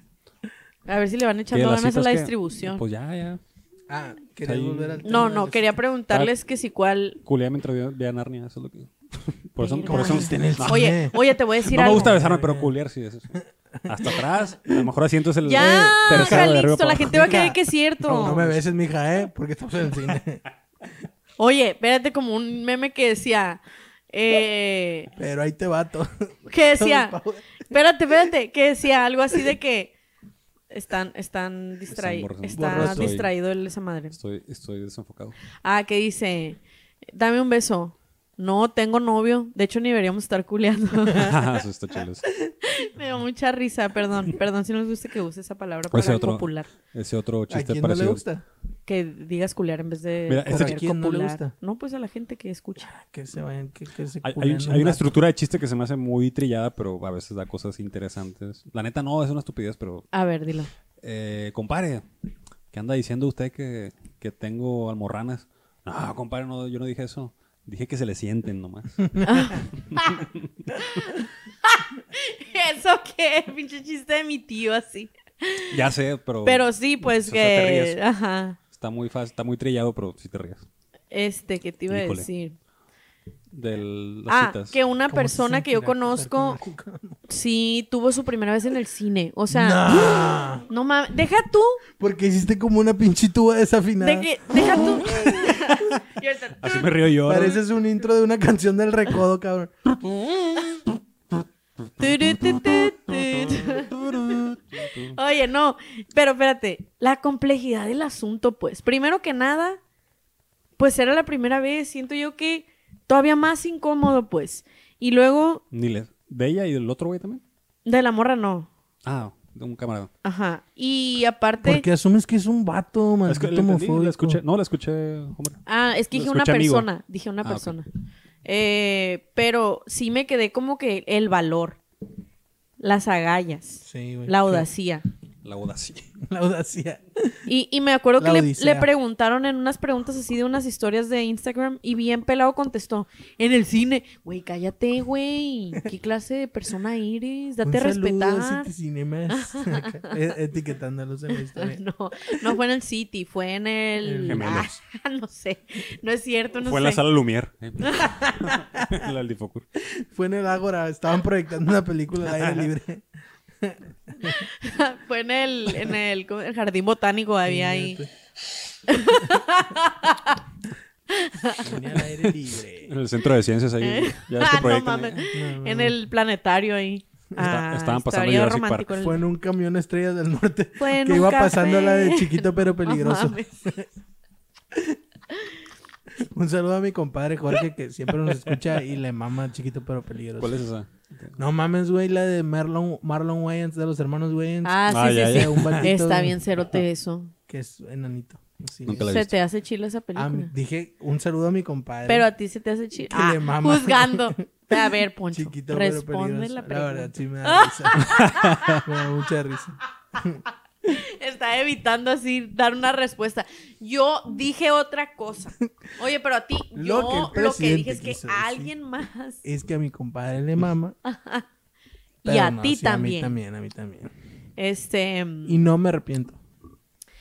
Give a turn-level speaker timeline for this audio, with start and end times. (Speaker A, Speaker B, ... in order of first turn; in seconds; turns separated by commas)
Speaker A: 0.8-2.8, Speaker B: 1.5-3.4, Speaker C: 3.9-5.8, Speaker B: 4.4-5.2, Speaker A: 5.0-7.2, Speaker B: 7.2-17.4, Speaker A: 9.6-12.1, Speaker C: 9.9-11.2, Speaker C: 11.8-12.7, Speaker C: 13.3-14.2, Speaker A: 15.4-18.4, Speaker C: 15.6-20.4, Speaker B: 18.1-18.6, Speaker A: 21.4-25.1, Speaker C: 25.1-27.6, Speaker A: 26.5-29.9, Speaker A: 30.7-34.1, Speaker B: 31.9-33.3, Speaker C: 32.5-33.2, Speaker B: 34.1-35.4, Speaker A: 35.6-36.6, Speaker A: 37.1-41.3, Speaker B: 41.1-42.3, Speaker A: 42.6-46.7, Speaker B: 45.9-48.2, Speaker C: 47.5-48.5, Speaker A: 48.9-52.9, Speaker B: 50.3-50.8, Speaker C: 50.5-51.5, Speaker C: 52.8-55.1, Speaker B: 54.2-60.1, Speaker A: 60.1-60.7, Speaker B: 61.0-62.0, Speaker B: 62.7-69.2, Speaker A: 69.2-75.8, Speaker B: 69.9-70.7, Speaker B: 75.7-78.0, Speaker A: 76.4-78.6, Speaker B: 78.7-80.6, Speaker A: 81.1-82.5, Speaker B: 81.9-82.3, Speaker B: 83.5-84.8, Speaker A: 84.3-86.6, Speaker C: 85.1-87.2, Speaker A: 87.3-91.8, Speaker C: 89.5-90.7, Speaker C: 92.0-95.6, Speaker A: 94.0-96.9, Speaker B: 96.6-97.6, Speaker C: 97.2-99.7, Speaker A: 100.4-100.8, Speaker A: 102.0-104.1, Speaker B: 103.5-105.2, Speaker A: 105.1-109.8, Speaker A: 110.8-115.6, Speaker B: 115.7-117.4, Speaker A: 117.8-118.7, Speaker B: 119.0-120.1, Speaker A: 120.2-121.8, Speaker C: 121.6-124.4, Speaker B: 123.2-126.9, Speaker A: 125.7-127.9, Speaker B: 127.4-127.7, Speaker A: 128.4-131.8, Speaker A: 132.8-135.0, Speaker C: 133.8-134.7, Speaker B: 135.4-136.1, Speaker C: 136.2-137.4, Speaker A: 137.5-148.7, Speaker C: 138.2-138.9, Speaker C: 147.6-151.8, Speaker A: 149.3-150.1, Speaker A: 151.5-157.0, Speaker C: 154.0-154.6, Speaker B: 154.3-154.8, Speaker B: 156.6-159.6, Speaker A: 157.8-158.3, Speaker C: 159.8-163.1, Speaker B: 162.3-162.7, Speaker C: 163.6-164.4, Speaker A: 164.2-168.0, Speaker C: 167.4-168.1, Speaker A: 168.9-170.4, Speaker A: 171.1-171.7, Speaker C: 171.6-172.9, Speaker B: 172.9-175.2, Speaker A: 173.8-179.2, Speaker C: 175.3-176.0, Speaker B: 177.4-179.0, Speaker C: 179.0-183.9, Speaker A: 180.8-183.5, Speaker C: 184.7-185.0, Speaker C: 186.1-190.6, Speaker B: 190.4-191.4, Speaker C: 191.4-196.4, Speaker A: 194.6-197.3, Speaker B: 194.9-195.9, Speaker C: 197.5-199.1, Speaker B: 198.8-199.3, Speaker A: 199.0-200.5, Speaker C: 200.1-202.3, Speaker A: 202.1-208.9, Speaker C: 203.1-208.1, Speaker B: 208.0-208.8, Speaker C: 208.8-210.4, Speaker A: 210.2-219.4, Speaker C: 216.7-218.7, Speaker C: 219.4-220.9, Speaker A: 221.0-221.4, Speaker A: 222.2-223.3, Speaker C: 222.2-224.1, Speaker A: 224.6-225.7, Speaker C: 225.4-226.4